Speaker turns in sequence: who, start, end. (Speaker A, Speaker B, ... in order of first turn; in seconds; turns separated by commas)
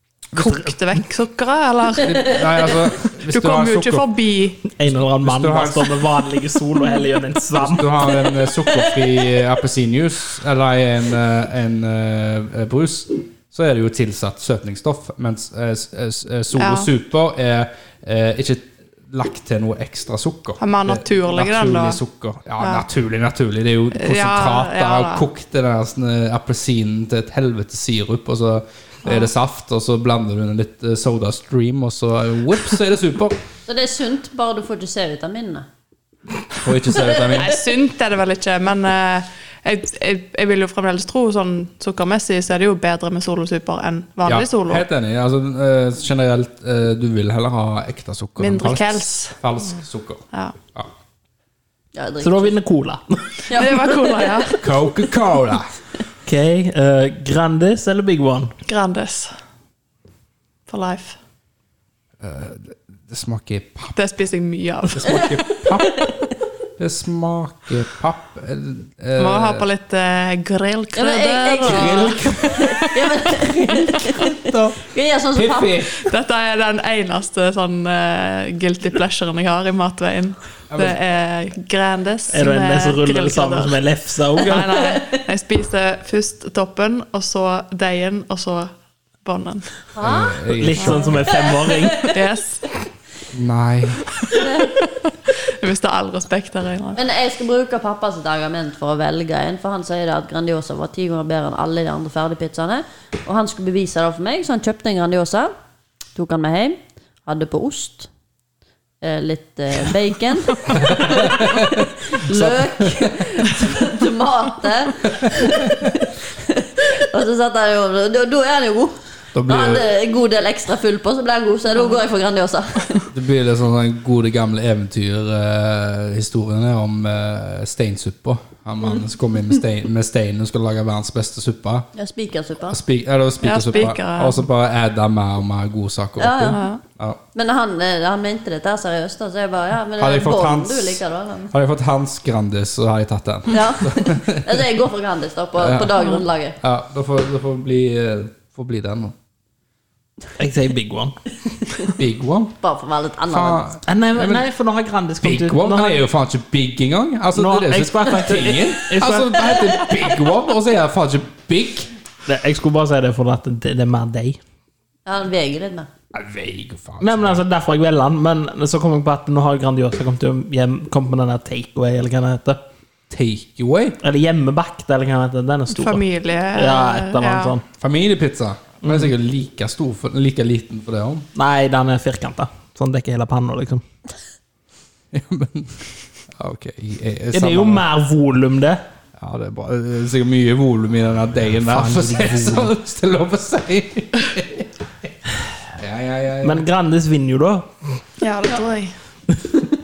Speaker A: 0.3-4.6, Speaker B: 2.0-4.1, Speaker C: 4.7-7.9, Speaker B: 4.9-6.0, Speaker B: 7.6-33.4, Speaker A: 16.6-16.9, Speaker A: 20.6-22.0, Speaker A: 22.6-22.9, Speaker A: 23.9-25.2, Speaker A: 29.1-29.3, Speaker D: 33.7-35.7, Speaker B: 36.6-37.6, Speaker A: 37.0-44.8, Speaker B: 44.2-50.2, Speaker A: 48.4-49.4, Speaker D: 51.9-52.6, Speaker C: 52.2-53.7, Speaker D: 53.5-53.7, Speaker A: 53.5-54.6, Speaker B: 54.6-55.7, Speaker C: 56.3-58.6, Speaker A: 58.7-59.3, Speaker A: 60.7-61.2, Speaker B: 62.2-64.0, Speaker A: 64.0-65.4, Speaker B: 64.9-66.1, Speaker D: 65.8-66.1, Speaker B: 66.8-69.7, Speaker A: 69.2-73.3, Speaker D: 71.0-75.9, Speaker B: 71.7-72.9, Speaker B: 74.2-74.8, Speaker B: 75.3-76.0, Speaker A: 76.0-83.8, Speaker B: 80.7-81.0, Speaker C: 82.3-85.0, Speaker A: 84.4-88.7, Speaker D: 84.8-85.2, Speaker A: 89.2-89.8, Speaker D: 89.9-91.9, Speaker B: 90.0-91.2, Speaker C: 90.5-92.2, Speaker A: 90.8-91.1, Speaker A: 92.1-92.7, Speaker B: 93.3-94.2, Speaker D: 94.3-94.8, Speaker A: 95.4-97.0, Speaker D: 97.0-105.5, Speaker D: 106.2-108.1, Speaker D: 109.0-119.0, Speaker B: 110.8-113.7, Speaker B: 115.2-115.9, Speaker B: 119.3-119.9, Speaker D: 119.5-123.1, Speaker B: 123.1-131.9, Speaker D: 131.9-132.8, Speaker B: 132.7-137.2, Speaker A: 133.4-134.4, Speaker D: 136.2-136.6, Speaker A: 136.5-136.8, Speaker D: 137.3-141.5, Speaker B: 140.0-144.6, Speaker D: 143.5-146.6, Speaker B: 145.6-149.1, Speaker C: 150.4-151.2, Speaker D: 151.5-151.9, Speaker B: 152.0-152.6, Speaker D: 152.6-153.6, Speaker B: 153.3-154.5, Speaker C: 153.9-156.0, Speaker B: 155.2-161.9, Speaker C: 157.3-159.6, Speaker C: 162.3-164.4, Speaker D: 165.1-165.9, Speaker B: 166.1-167.4, Speaker C: 167.0-172.6, Speaker B: 173.1-174.0, Speaker C: 174.0-176.0, Speaker A: 175.7-177.5, Speaker C: 176.5-177.6, Speaker B: 177.8-181.3, Speaker C: 178.8-179.1, Speaker C: 181.3-183.8, Speaker B: 185.1-187.9, Speaker C: 187.3-188.8, Speaker B: 189.2-194.7, Speaker C: 191.6-192.7, Speaker B: 195.8-196.7, Speaker C: 196.4-197.7, Speaker A: 198.2-198.9, Speaker C: 199.3-199.6